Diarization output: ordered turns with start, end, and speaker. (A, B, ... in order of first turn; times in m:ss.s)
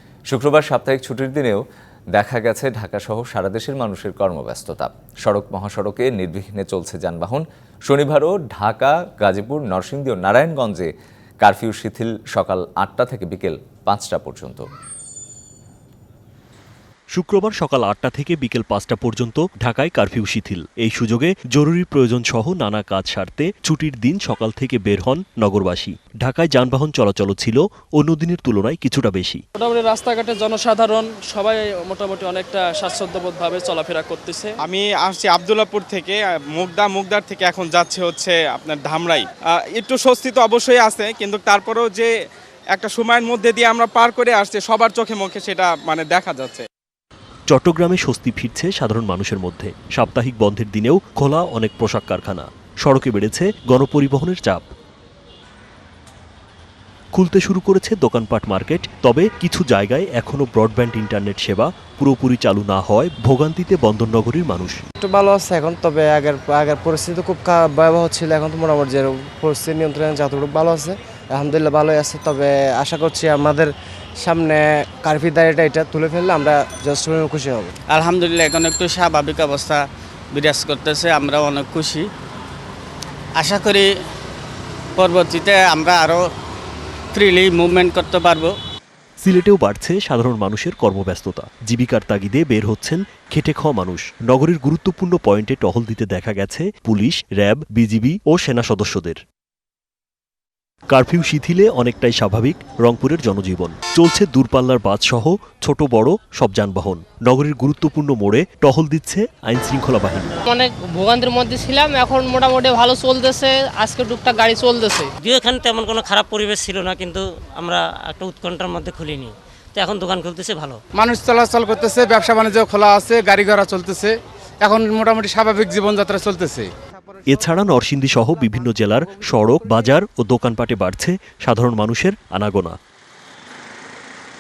0:00.3-0:01.6 A
0:02.1-0:10.9 A
0:11.4-0:14.6 A
0:17.1-0:29.4 B
0:29.6-0:34.6 C
0:34.6-0:42.1 D
0:42.7-0:46.7 D
0:47.5-0:54.7 B
0:57.1-1:04.8 B
1:05.1-1:13.7 E
1:14.2-1:14.6 E
1:15.1-1:17.7 E
1:17.9-1:22.1 F
1:23.4-1:23.9 F
1:25.0-1:26.3 F
1:27.1-1:28.6 F
1:29.2-1:39.2 B
1:40.9-1:50.4 B
1:50.5-1:55.1 G
1:55.2-2:00.8 H
2:00.9-2:06.7 I
2:07.3-2:12.8 B